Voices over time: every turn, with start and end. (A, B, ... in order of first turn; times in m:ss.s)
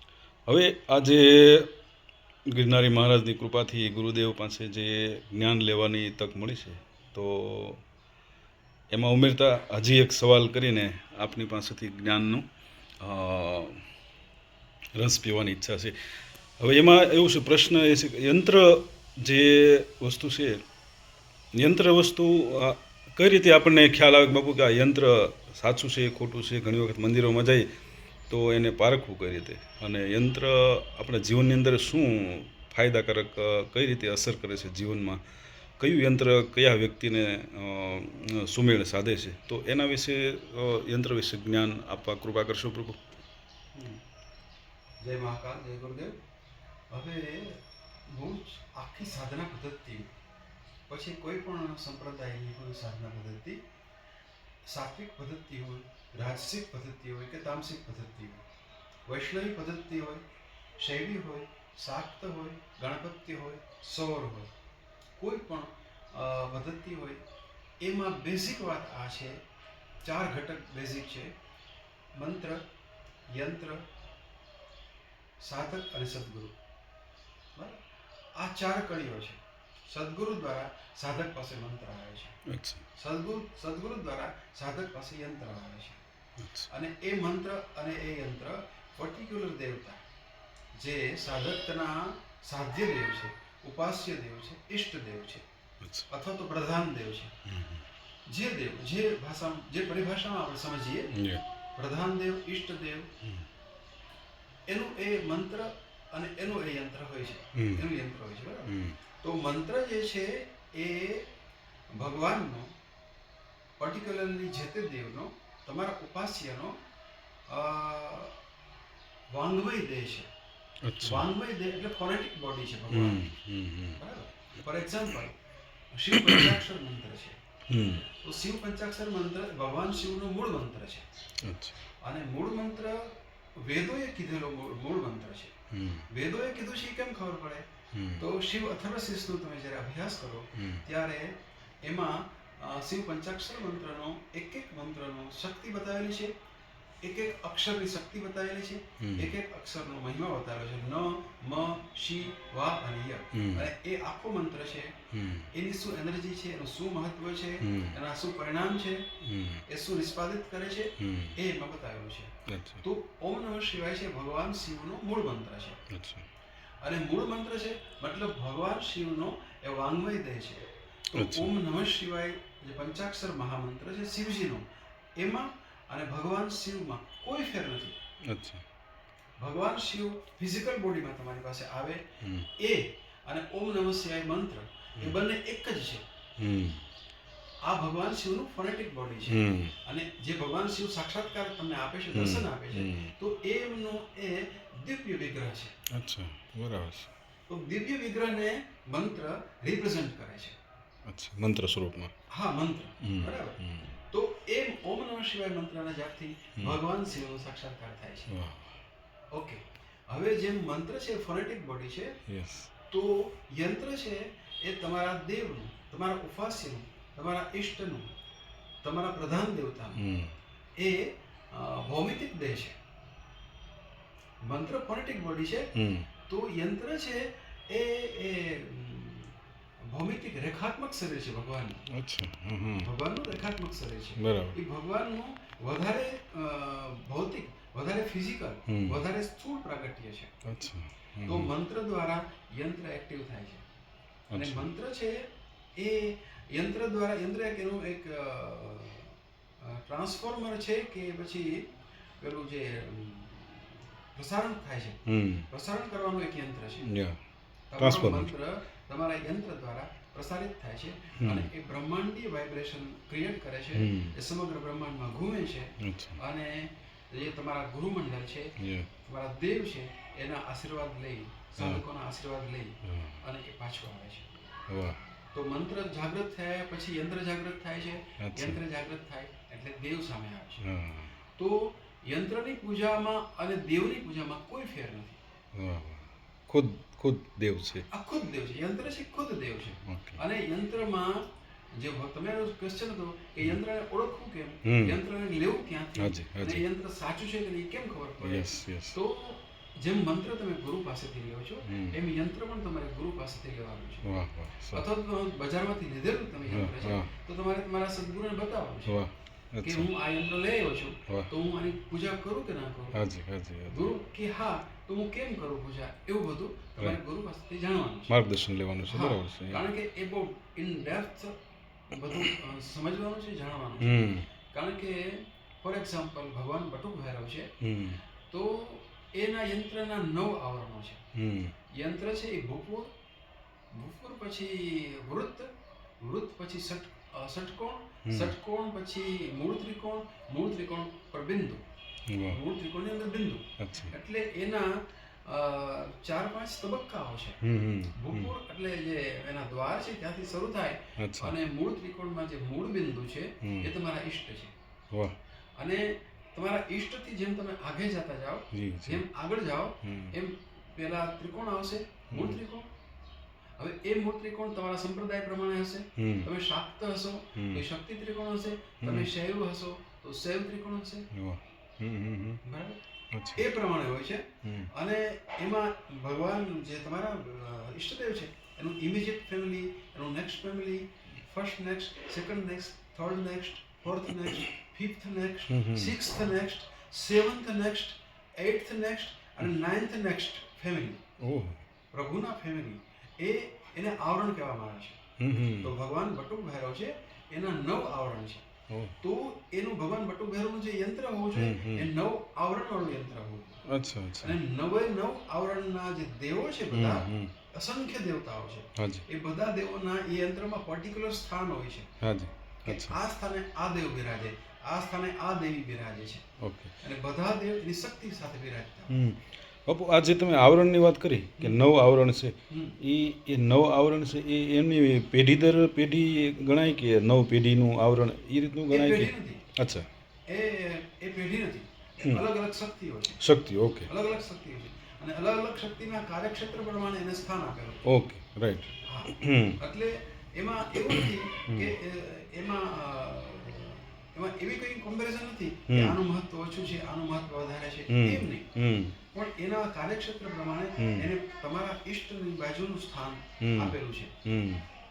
0:00.5-0:01.7 A
0:02.5-0:07.8 A
0:08.9-0:12.5 A
0:13.0-0:13.9 A
0:14.9-0:20.6 A
0:21.5-0:27.8 A
0:28.3-0:35.2 A
0:35.8-0:43.0 A
0:43.7-0:44.0 B
0:45.0-0:46.2 B
0:46.9-0:50.1 B
0:50.9-0:53.6 B
0:54.7-0:58.4 B
0:59.1-1:00.2 B
1:00.8-1:04.5 B
1:05.2-1:07.2 B
1:07.8-1:09.4 B
1:10.0-1:11.3 B
1:12.2-1:12.6 B
1:13.3-1:13.8 B
1:15.4-1:16.5 B
1:17.6-1:17.8 B
1:18.4-1:22.4 B
1:22.5-1:22.8 A
1:23.0-1:26.0 B
1:26.4-1:26.7 A
1:26.7-1:30.0 B
1:30.7-1:35.4 B
1:35.8-1:36.1 A
1:36.1-1:37.3 B
1:37.5-1:37.8 A
1:38.3-1:41.1 B
1:41.1-1:41.4 A
1:41.8-1:43.1 B
1:44.7-1:51.3 B
1:47.6-1:47.9 A
1:48.7-1:49.0 A
1:51.9-1:52.7 B
1:53.8-1:56.8 B
1:57.5-1:58.4 B
1:59.3-2:00.3 B
2:00.8-2:01.3 A
2:01.0-2:03.2 B
2:02.9-2:04.0 A
2:04.0-2:05.4 B
2:05.9-2:07.4 B
2:06.1-2:06.6 A
2:07.7-2:08.0 A
2:08.1-2:11.0 B
2:11.4-2:11.8 A
2:12.0-2:15.5 B
2:15.7-2:16.1 A
2:16.1-2:17.7 B
2:17.9-2:18.2 A
2:18.2-2:26.3 B
2:20.6-2:20.8 A
2:27.0-2:35.0 B
2:29.0-2:29.3 A
2:33.3-2:33.7 A
2:35.1-2:35.5 A
2:35.5-2:39.1 B
2:37.6-2:38.0 A
2:39.2-2:39.6 A
2:39.7-2:45.8 B
2:41.0-2:41.4 A
2:42.5-2:42.8 A
2:45.9-2:46.3 A
2:46.8-2:54.6 B
2:51.2-2:51.5 A
2:55.2-2:58.0 B
2:58.3-2:58.6 A
2:59.4-3:02.1 B
3:02.2-3:02.5 A
3:02.6-3:06.0 B
3:06.4-3:06.8 A
3:07.6-3:15.8 B
3:09.3-3:09.8 A
3:12.1-3:13.1 A
3:15.9-3:17.1 A
3:17.5-3:20.6 B
3:21.1-3:22.1 A
3:22.3-3:28.3 B
3:23.0-3:23.9 A
3:28.3-3:28.8 A
3:29.3-3:32.2 B
3:32.3-3:32.7 A
3:32.9-3:38.1 B
3:38.8-3:40.0 B
3:40.0-3:40.4 A
3:40.8-3:42.8 B
3:44.4-3:45.7 B
3:45.8-3:46.1 A
3:46.3-3:51.8 B
3:51.9-3:52.9 A
3:52.8-4:00.3 B
3:54.2-3:54.6 A
3:58.7-3:59.0 A
4:00.4-4:01.5 A
4:01.2-4:03.6 B
4:04.3-4:04.7 A
4:04.3-4:16.9 B
4:15.1-4:15.5 A
4:16.8-4:17.2 A
4:17.7-4:28.5 B
4:17.8-4:18.3 A
4:21.2-4:21.5 A
4:23.8-4:24.2 A
4:25.8-4:26.2 A
4:28.6-4:28.9 A
4:29.0-4:34.4 B
4:31.6-4:31.8 A
4:32.8-4:33.2 A
4:34.7-4:35.0 A
4:35.3-4:40.6 B
4:38.2-4:38.6 A
4:40.6-4:41.1 A
4:41.4-4:45.2 B
4:45.5-4:47.9 A
4:47.9-5:04.1 B
4:49.9-4:50.2 A
4:54.6-4:55.0 A
4:56.0-4:56.6 A
4:58.2-4:59.0 A
5:01.6-5:02.0 A
5:04.0-5:04.8 A
5:04.7-5:09.0 B
5:06.5-5:07.1 A
5:08.9-5:09.9 A
5:09.6-5:13.0 B
5:12.9-5:13.9 A
5:13.7-5:18.1 B
5:18.1-5:19.6 A
5:18.9-5:21.4 B
5:21.9-5:27.5 B
5:23.8-5:24.3 A
5:27.6-5:28.0 A
5:28.3-5:31.0 B
5:31.2-5:31.6 A
5:31.7-5:32.9 B
5:33.7-5:35.5 B
5:36.0-5:41.6 B
5:38.0-5:38.4 A
5:42.1-5:42.4 A
5:42.3-5:47.4 B
5:43.6-5:43.9 A
5:47.4-5:48.3 A
5:48.0-5:54.5 B
5:51.0-5:51.4 A
5:53.4-5:53.7 A
5:55.6-6:02.7 B
5:58.5-5:59.1 A
5:59.8-6:00.2 A
6:02.1-6:02.4 A
6:03.6-6:11.1 B
6:06.0-6:06.3 A
6:07.4-6:07.6 A
6:08.8-6:09.1 A
6:11.1-6:12.4 A
6:12.4-6:31.0 B
6:13.1-6:13.5 A
6:14.4-6:14.7 A
6:25.5-6:26.0 A
6:31.2-6:31.6 A
6:31.9-6:35.0 B
6:35.2-6:35.7 A
6:35.6-6:38.4 B
6:38.7-6:39.0 A
6:39.0-6:43.6 B
6:41.4-6:41.9 A
6:43.7-6:44.4 A
6:44.2-6:51.9 B
6:46.7-6:47.3 A
6:48.8-6:49.0 A
6:52.0-6:53.0 A
6:52.6-6:56.2 B
6:56.4-6:56.7 A
6:56.8-6:58.9 B
6:58.9-7:09.9 A
7:02.5-7:02.8 B
7:08.7-7:09.5 B
7:10.3-7:13.3 B
7:13.2-7:13.9 A
7:13.8-7:17.8 B
7:17.9-7:19.6 A
7:18.8-7:28.5 B
7:20.9-7:21.7 A
7:25.7-7:26.0 A
7:27.9-7:29.0 A
7:29.1-7:34.2 B
7:30.8-7:31.1 A
7:33.4-7:34.7 A